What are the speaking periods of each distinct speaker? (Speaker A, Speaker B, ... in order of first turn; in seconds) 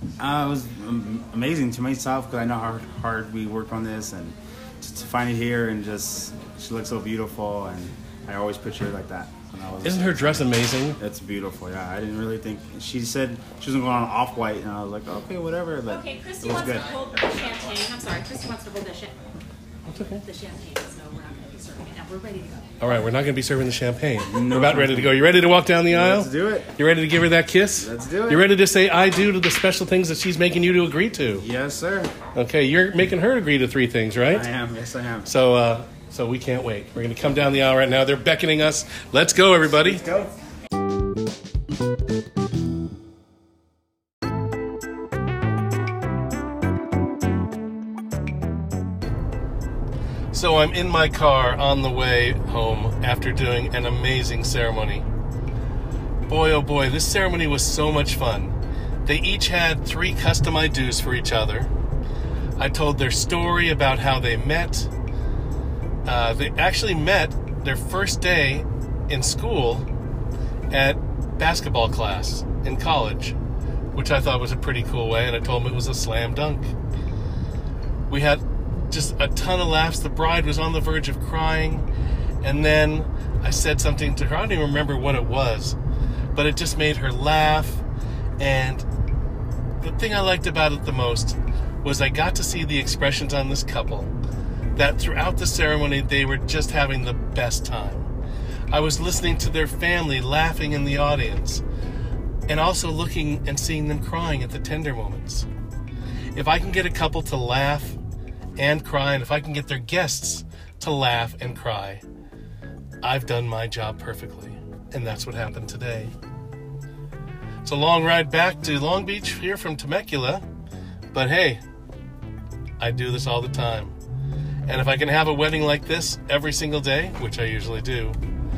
Speaker A: 0.2-10.4, 11.0-16.9, 24.3-25.1, 25.9-26.7, 27.8-28.4, 31.3-32.1, 34.3-35.3
Speaker B: 9.8-11.0, 19.9-20.2, 22.8-31.4, 32.3-34.5, 35.2-40.0, 50.3-55.0, 56.3-61.7, 62.6-64.9, 66.0-69.9, 70.7-73.4, 73.9-76.7, 78.1-81.9, 82.4-85.8, 86.3-87.8, 88.4-88.8, 89.8-94.1, 94.7-98.1, 98.7-101.6, 102.5-105.5, 106.3-108.0, 108.6-112.0, 113.0-116.1, 117.6-120.4, 121.1-121.6, 122.8-124.0, 124.7-128.2
Speaker C: 15.9-19.1, 20.2-22.7